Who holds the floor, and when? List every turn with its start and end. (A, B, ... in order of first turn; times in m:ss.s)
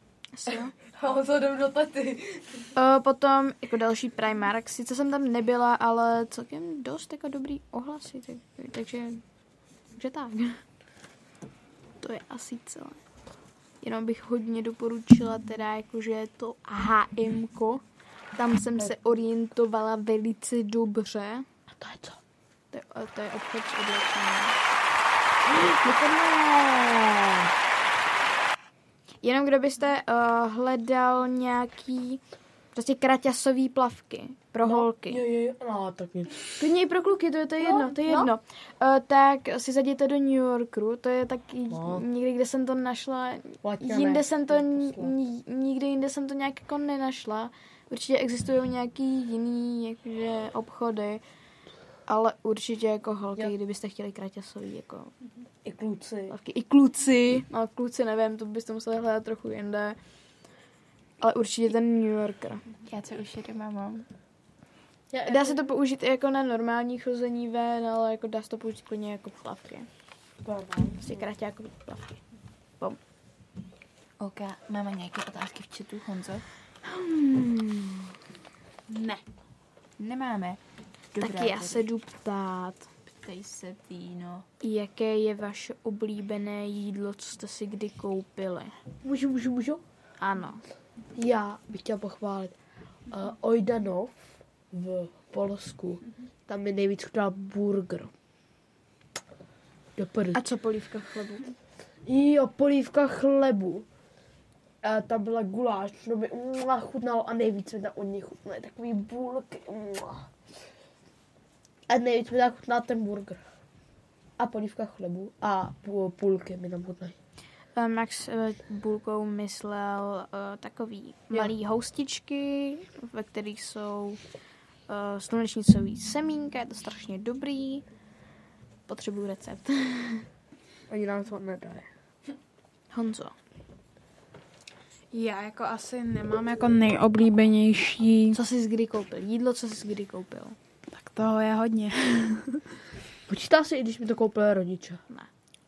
0:00.4-0:00.7 A
0:00.9-0:02.7 B
0:02.8-0:09.2 A
0:09.9-0:10.6 A
0:12.0-0:13.0 A
0:13.8-0:17.8 A
0:18.4-0:21.5 A
0:21.7-0:22.2 B
0:22.7-0:24.6 A
0:25.6-0:27.3 A
0:29.2-0:32.2 A
0:32.8-0:35.2 A
0:34.6-0:36.5 B
0:36.6-0:51.2 A
0:37.6-0:38.3 B
0:41.7-0:42.0 B
0:43.6-0:45.1 B
0:52.1-0:55.1 A
0:55.6-0:56.3 B
0:56.3-1:00.0 A
1:01.2-1:02.6 A
1:02.8-1:04.1 C
1:05.1-1:05.6 B
1:05.2-1:09.9 A
1:10.4-1:11.2 B
1:11.0-1:12.1 A
1:14.2-1:16.4 C
1:16.8-1:18.1 A
1:20.0-1:20.6 C
1:21.2-1:21.8 C
1:21.2-1:22.9 A
1:23.1-1:24.4 C
1:24.6-1:28.7 A
1:29.0-1:29.8 B
1:30.2-1:30.6 A
1:31.2-1:32.6 B
1:33.1-1:34.2 B
1:34.7-1:38.1 B
1:40.0-1:40.4 B
1:40.3-1:41.5 A
1:42.1-1:43.9 B
1:44.8-1:50.3 B
1:51.9-1:53.4 B
1:54.4-1:57.2 B
1:57.7-2:04.2 A
2:04.9-2:07.8 A
2:08.9-2:10.3 A
2:10.9-2:11.9 B
2:12.9-2:13.3 A
2:15.1-2:18.4 D
2:18.3-2:20.6 A
2:20.9-2:22.6 D
2:23.3-2:25.0 B